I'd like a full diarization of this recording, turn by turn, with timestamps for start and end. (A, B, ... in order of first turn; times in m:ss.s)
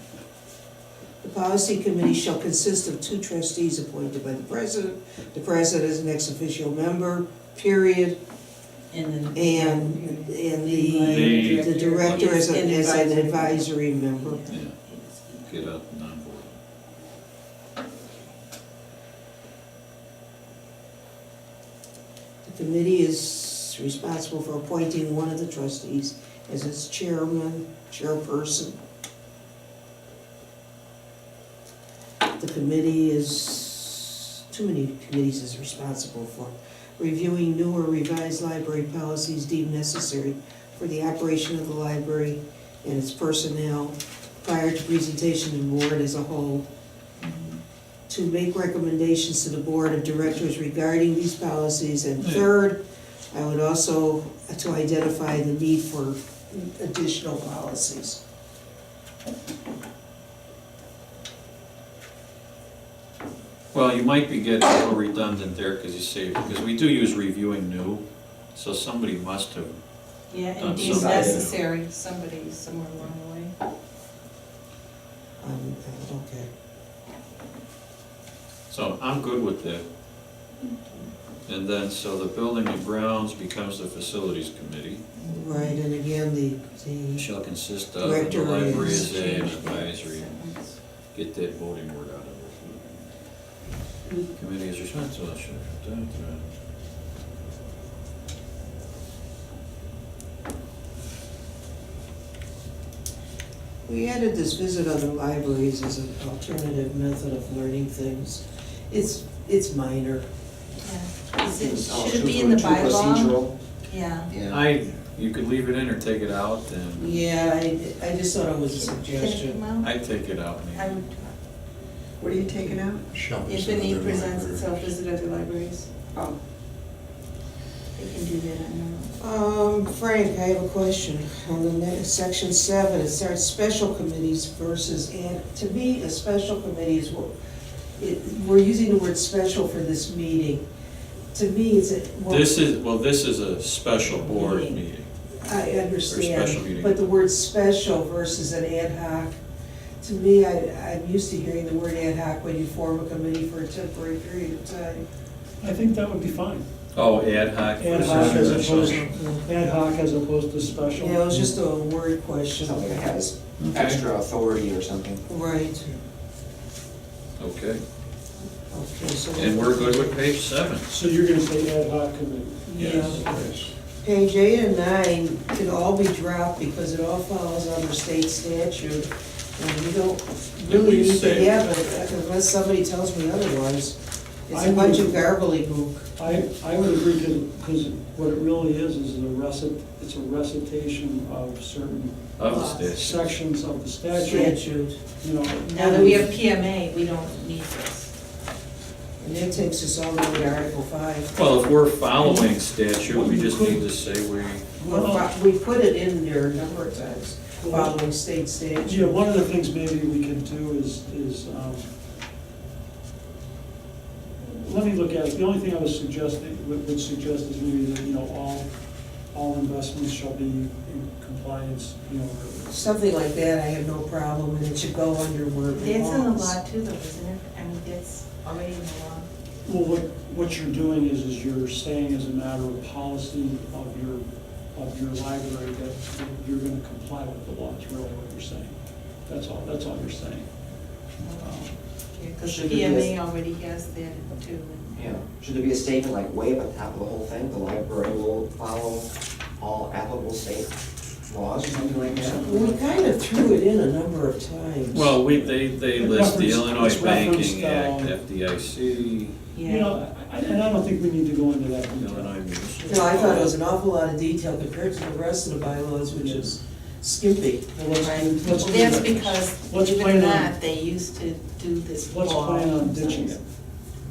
0:01.2-0:08.2 A
0:08.9-0:15.7 B
0:09.3-0:14.4 A
0:11.1-0:12.3 C
0:14.5-0:14.8 C
0:15.5-0:16.6 C
0:22.4-0:28.8 A
0:32.4-0:46.7 A
0:47.2-0:47.6 B
0:48.1-0:52.8 A
0:53.3-0:58.2 A
1:03.7-1:08.0 C
1:08.5-1:09.8 C
1:10.3-1:13.5 B
1:10.6-1:11.6 C
1:10.8-1:11.5 D
1:15.4-1:16.5 A
1:18.7-1:19.8 C
1:21.5-1:25.0 C
1:25.2-1:25.8 B
1:25.3-1:27.3 A
1:27.2-1:30.3 C
1:28.0-1:29.1 A
1:28.7-1:30.8 B
1:31.1-1:33.1 C
1:34.4-1:36.4 C
1:43.9-1:50.3 A
1:50.8-1:54.3 B
1:51.4-1:53.6 D
1:54.3-1:54.6 D
1:54.5-1:57.2 C
1:57.0-1:59.6 A
1:58.8-1:59.9 B
1:59.8-2:01.0 C
2:00.8-2:01.4 B
2:02.2-2:03.0 D
2:03.1-2:04.9 E
2:03.4-2:06.1 B
2:08.0-2:09.2 B
2:09.2-2:17.3 A
2:18.0-2:20.7 A
2:21.3-2:22.6 A
2:22.3-2:25.1 C
2:24.1-2:24.8 B
2:25.4-2:29.4 A
2:26.1-2:27.1 C
2:30.0-2:35.1 A
2:35.6-2:36.7 F
2:36.9-2:39.0 C
2:37.8-2:41.2 F
2:37.9-2:39.5 A
2:40.9-2:43.1 A
2:42.6-2:45.2 D
2:43.6-2:44.0 C
2:45.3-2:46.0 A
2:47.4-2:47.8 C
2:48.7-2:50.2 A
2:49.4-2:50.9 C
2:50.9-2:53.2 F
2:52.7-3:06.1 A
2:52.8-2:53.2 C
2:53.2-2:53.6 E
3:00.6-3:01.6 C
3:04.5-3:05.2 F
3:06.2-3:14.6 F
3:12.4-3:13.3 C
3:12.5-3:12.9 B
3:14.2-3:15.0 A
3:15.2-3:16.3 F
3:15.6-3:18.1 B
3:15.8-3:16.3 A
3:19.2-3:21.3 A
3:21.3-3:24.7 C
3:22.2-3:23.9 F
3:24.8-3:25.3 F
3:24.8-3:29.2 A
3:27.6-3:27.9 F
3:28.8-3:31.9 F
3:34.4-3:38.7 F
3:39.3-3:42.7 F
3:42.7-3:46.6 A
3:45.7-3:49.3 B
3:49.6-3:58.8 F
3:59.3-4:00.5 F
4:01.2-4:05.1 B
4:02.5-4:03.1 D
4:04.9-4:10.7 D
4:11.2-4:12.5 D
4:11.6-4:13.1 F
4:12.4-4:15.1 A
4:14.9-4:19.3 C
4:15.3-4:18.2 F
4:19.5-4:20.0 B
4:19.6-4:23.5 F
4:21.9-4:23.5 C
4:22.9-4:27.7 A
4:26.2-4:26.5 F
4:27.8-4:30.5 F
4:28.0-4:33.4 B
4:32.1-4:33.4 F